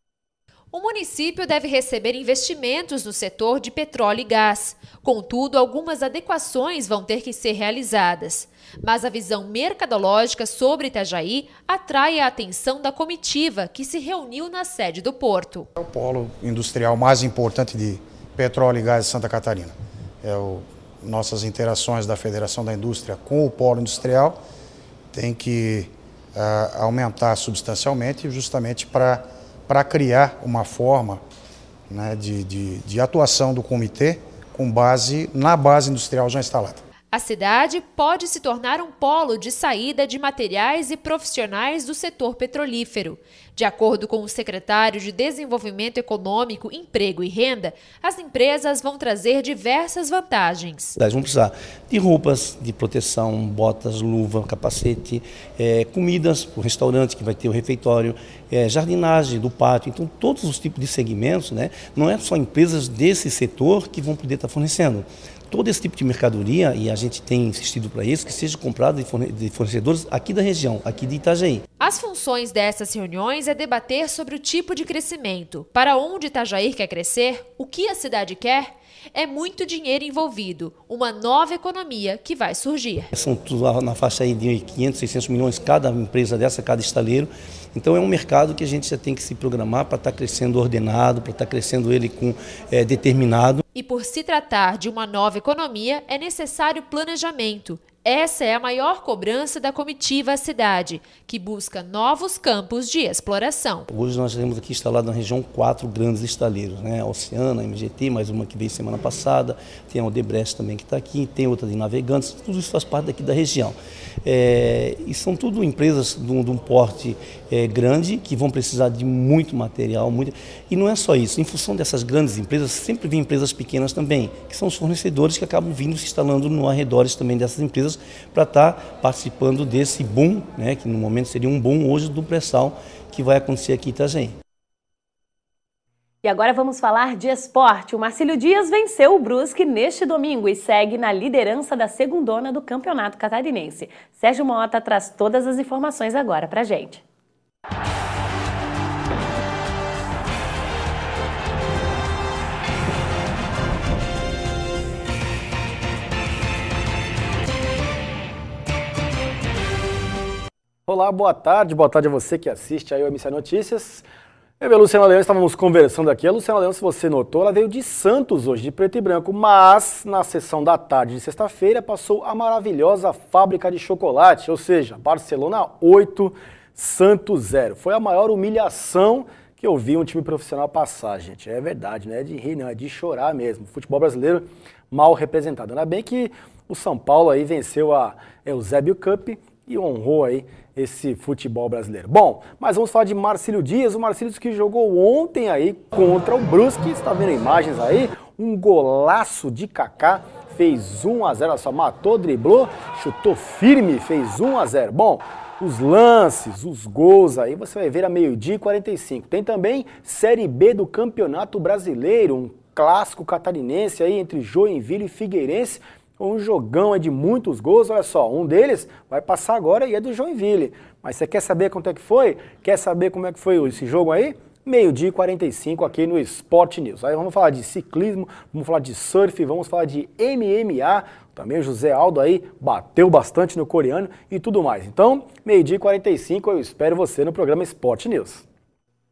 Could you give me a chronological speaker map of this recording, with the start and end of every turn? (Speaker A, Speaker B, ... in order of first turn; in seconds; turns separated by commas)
Speaker A: 0.7-15.7, Speaker B: 15.8-24.4, Speaker B: 25.1-31.2, Speaker B: 31.9-36.8, Speaker A: 37.1-51.0, Speaker C: 51.0-71.6, Speaker A: 71.8-83.1, Speaker C: 83.1-93.6, Speaker A: 93.8-103.9, Speaker C: 103.9-134.3, Speaker D: 136.2-147.0, Speaker E: 160.9-164.1, Speaker E: 164.6-238.4